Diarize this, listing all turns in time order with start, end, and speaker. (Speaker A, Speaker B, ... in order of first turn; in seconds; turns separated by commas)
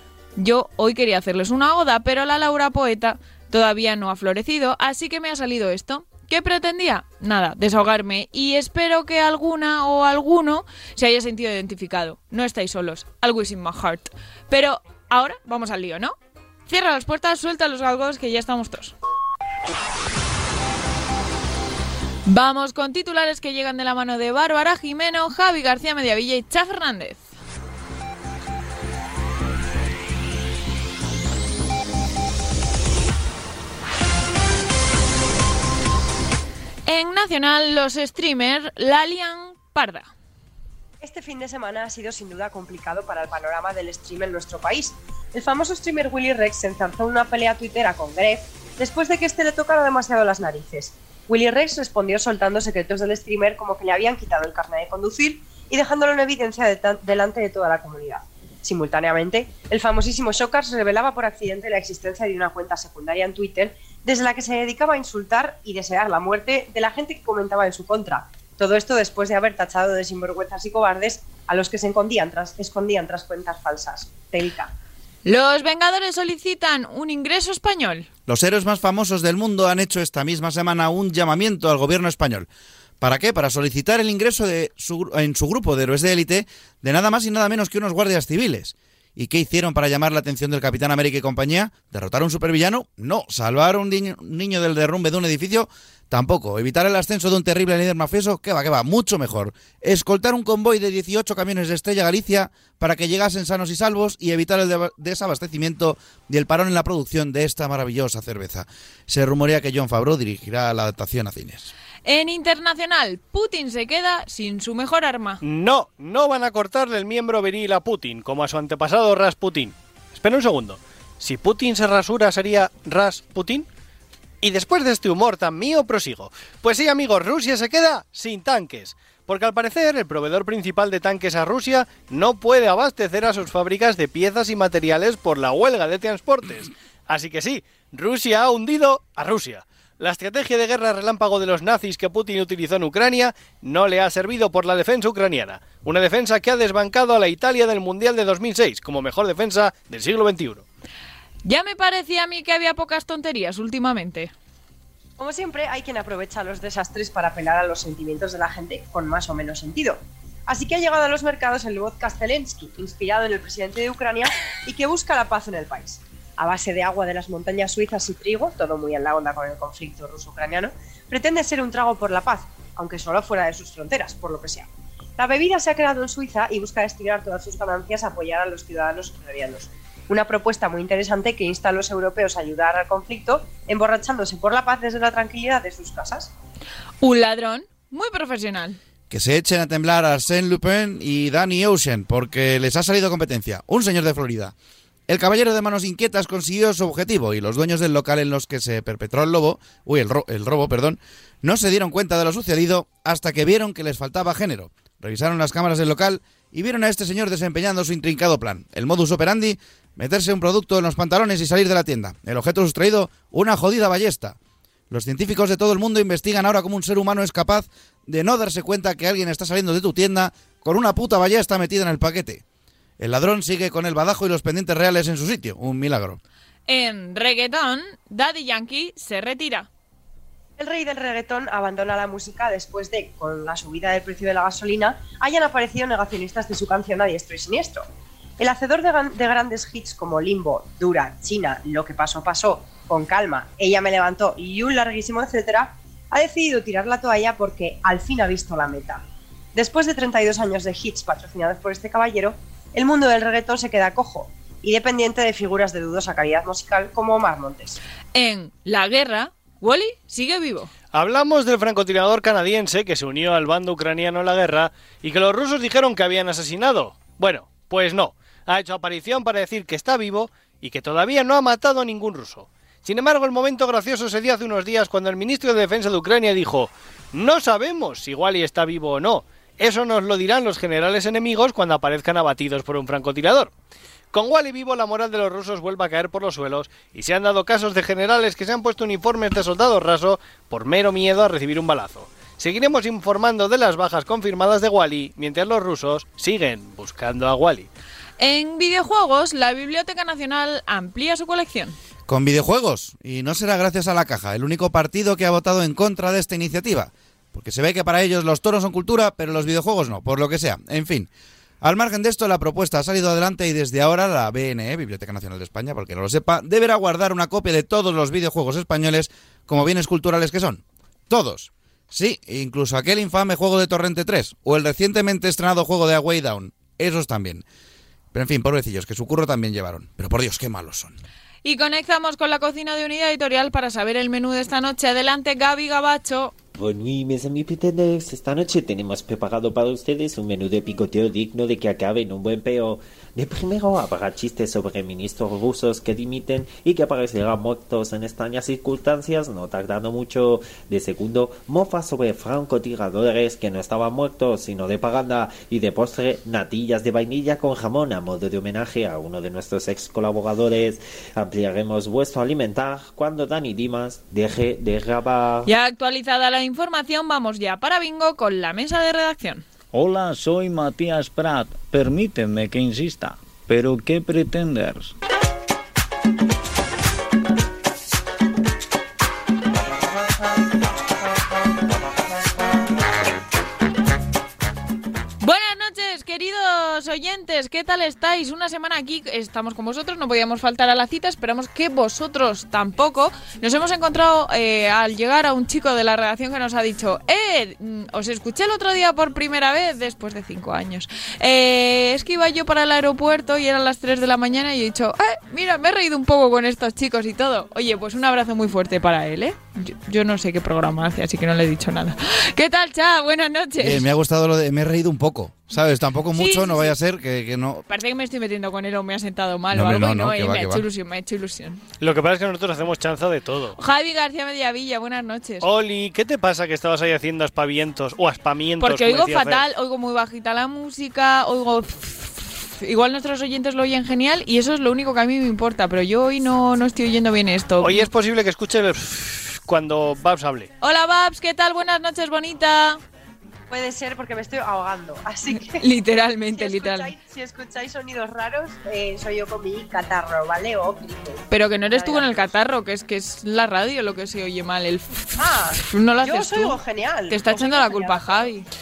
Speaker A: 0.3-16.1, Speaker A: 16.7-18.9, Speaker A: 22.2-27.2, Speaker A: 36.9-40.1, Speaker B: 41.0-74.7, Speaker A: 75.2-78.1, Speaker C: 78.3-82.5, Speaker C: 83.0-111.7, Speaker A: 112.0-115.4, Speaker D: 115.4-123.7, Speaker D: 124.4-150.6, Speaker A: 151.4-154.3, Speaker B: 155.2-186.3, Speaker A: 187.0-188.8, Speaker C: 189.1-194.5, Speaker C: 195.1-214.4, Speaker C: 214.9-222.4, Speaker C: 223.0-226.2, Speaker A: 226.7-229.7, Speaker B: 230.6-237.8, Speaker B: 238.4-249.0, Speaker B: 249.5-257.8, Speaker A: 258.1-260.7, Speaker D: 260.9-283.5, Speaker D: 284.1-297.7, Speaker A: 298.2-301.8, Speaker C: 302.1-311.1, Speaker C: 311.6-327.4, Speaker C: 328.1-330.9, Speaker A: 331.4-336.3, Speaker E: 336.6-365.5, Speaker A: 365.4-369.4, Speaker F: 369.7-374.9, Speaker A: 385.2-413.9, Speaker C: 413.6-417.6, Speaker A: 416.1-416.8, Speaker A: 417.7-421.6, Speaker C: 419.5-420.6, Speaker D: 421.8-423.6, Speaker A: 423.6-425.5, Speaker D: 425.4-429.4, Speaker A: 428.6-437.9, Speaker D: 437.6-440.5, Speaker A: 440.6-442.8, Speaker B: 443.5-445.7, Speaker A: 445.4-446.9, Speaker B: 446.3-452.3, Speaker A: 451.3-458.5, Speaker B: 455.2-458.3